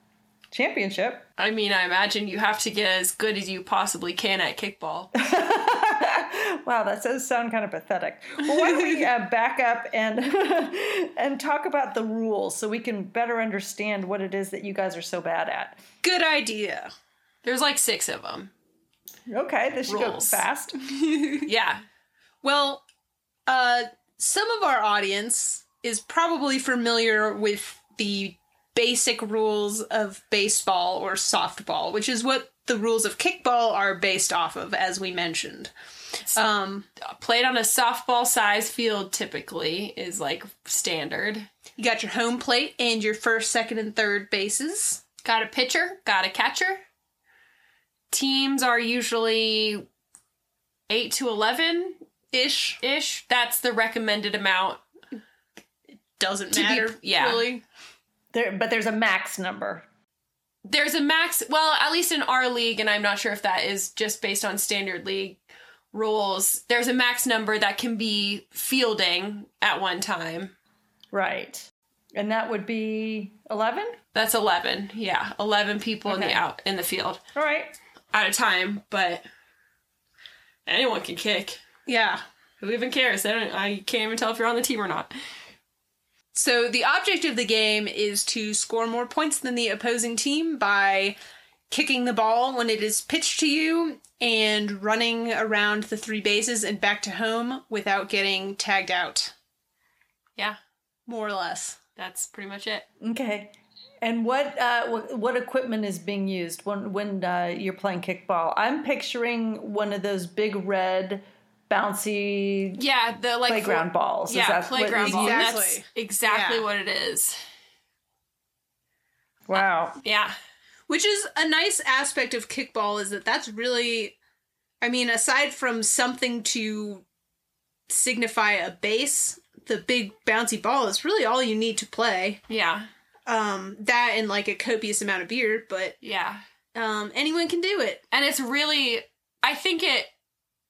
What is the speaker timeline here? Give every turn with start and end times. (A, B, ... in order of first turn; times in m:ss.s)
0:00.5-0:01.3 A
0:01.4-0:05.1 B
0:05.2-0:15.8 A
0:08.5-0:09.0 C
0:16.0-0:16.9 C
0:17.4-0:18.5 B
0:19.3-0:20.9 A
0:19.9-0:20.4 B
0:21.1-0:21.4 C
0:21.4-0:21.8 B
0:22.4-0:22.8 C
0:23.5-0:35.7 C
0:36.4-0:36.9 C
0:37.0-0:41.5 B
0:41.8-0:45.0 C
0:45.2-0:46.8 B
0:48.1-0:49.9 B
0:50.9-0:52.0 B
0:52.3-0:52.8 C
0:52.8-0:54.8 B
0:56.2-0:57.6 C
0:56.5-0:57.5 B
0:58.3-0:59.8 A
1:00.6-1:10.5 B
1:11.1-1:14.0 A
1:14.2-1:17.2 B
1:16.1-1:16.4 C
1:17.4-1:17.8 A
1:18.1-1:19.2 B
1:20.7-1:21.6 B
1:21.9-1:22.2 C
1:22.6-1:25.1 B
1:26.3-1:31.2 C
1:31.7-1:39.3 C
1:41.1-1:41.8 C
1:42.0-1:42.9 B
1:43.0-1:52.8 A
1:52.8-1:57.4 B
1:53.5-1:55.5 A
1:55.0-1:56.6 C
1:59.5-2:00.0 A
1:59.5-2:00.4 B
2:00.9-2:04.2 C
2:04.8-2:07.0 C
2:07.9-2:12.4 C
2:12.5-2:12.9 B
2:13.3-2:16.0 C
2:16.0-2:16.4 B
2:16.7-2:18.0 C
2:18.1-2:20.1 B